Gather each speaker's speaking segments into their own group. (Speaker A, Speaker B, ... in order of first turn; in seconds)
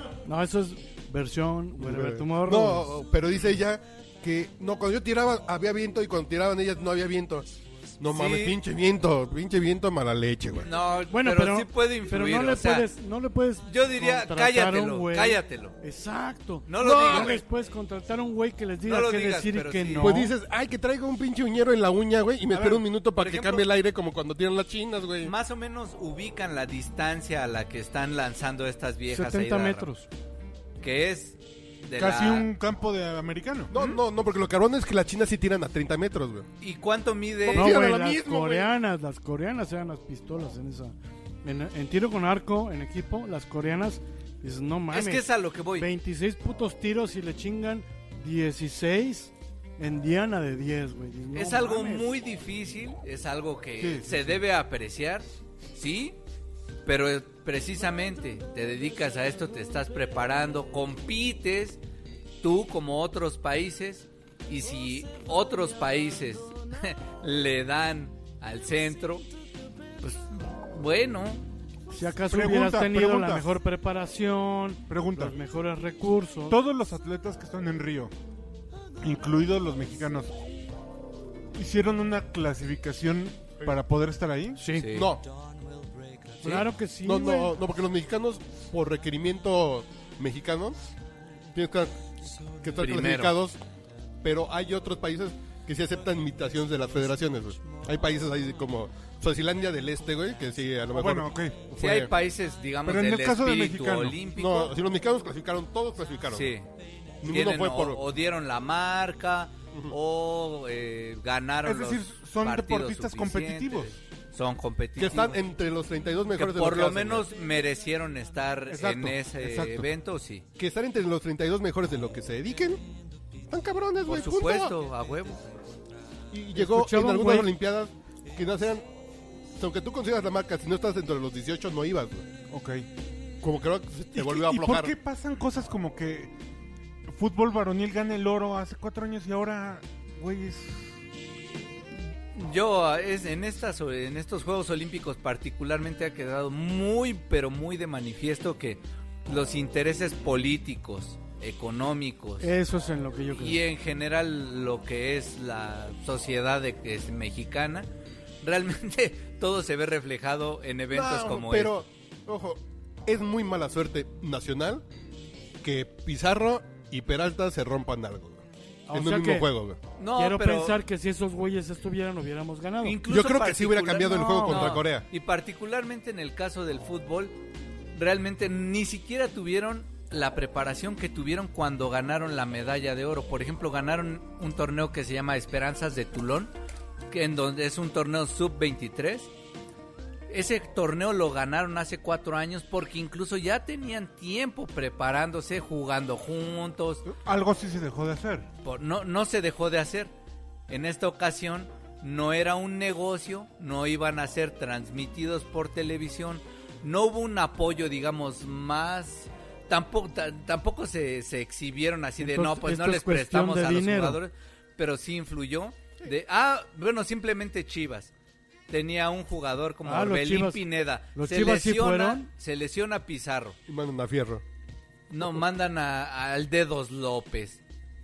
Speaker A: 0.2-2.9, 11.1-20.3, 29.1-30.1, 37.5-45.2, 45.8-52.1, 71.9-76.6, 84.6-84.9, 86.4-87.5, 126.5-127.5, 152.4-153.6, 168.9-169.5, 170.2-173.0, 174.2-174.8, 212.2-214.2, 219.8-220.6, 221.1-222.3
Speaker B: 1.8-10.7, 16.8-17.4, 20.0-25.3, 33.7-36.5, 37.4-38.7, 84.9-85.2, 87.0-90.8, 91.5-92.0, 92.5-93.6, 94.2-102.1, 104.4-106.5, 107.2-108.0, 115.0-117.3, 120.6-122.8, 123.5-124.7, 126.3-128.9, 129.6-132.3, 133.4-134.9, 160.9-164.8, 165.6-169.8, 173.1-175.1, 223.7-224.4
Speaker C: 8.1-8.6, 10.6-12.9, 13.7-15.8, 16.7-17.4, 18.8-20.3, 23.1-23.7, 25.2-29.9, 30.8-32.5, 36.6-37.8, 44.9-45.9, 51.3-56.2, 56.8-61.8, 62.4-69.3, 70.0-71.4, 84.8-85.2, 92.8-93.3, 101.8-104.8, 106.3-106.7, 107.2-115.4, 116.3-120.5, 124.0-125.5, 142.3-152.5, 153.4-157.9, 158.4-161.8, 170.0-170.8, 172.8-177.3, 177.9-186.5, 187.1-189.3, 190.3-197.0, 198.6-200.1, 200.7-218.1, 218.7-223.6, 225.1-227.6
Speaker D: 22.5-22.8, 31.9-33.7, 53.8-54.4, 72.3-73.5, 74.9-75.4, 76.5-78.1, 79.0-80.3, 81.5-84.6, 100.9-101.6, 102.9-104.2, 111.6-114.0, 118.7-119.9, 132.5-132.9, 134.1-136.3, 137.1-140.9, 197.1-198.5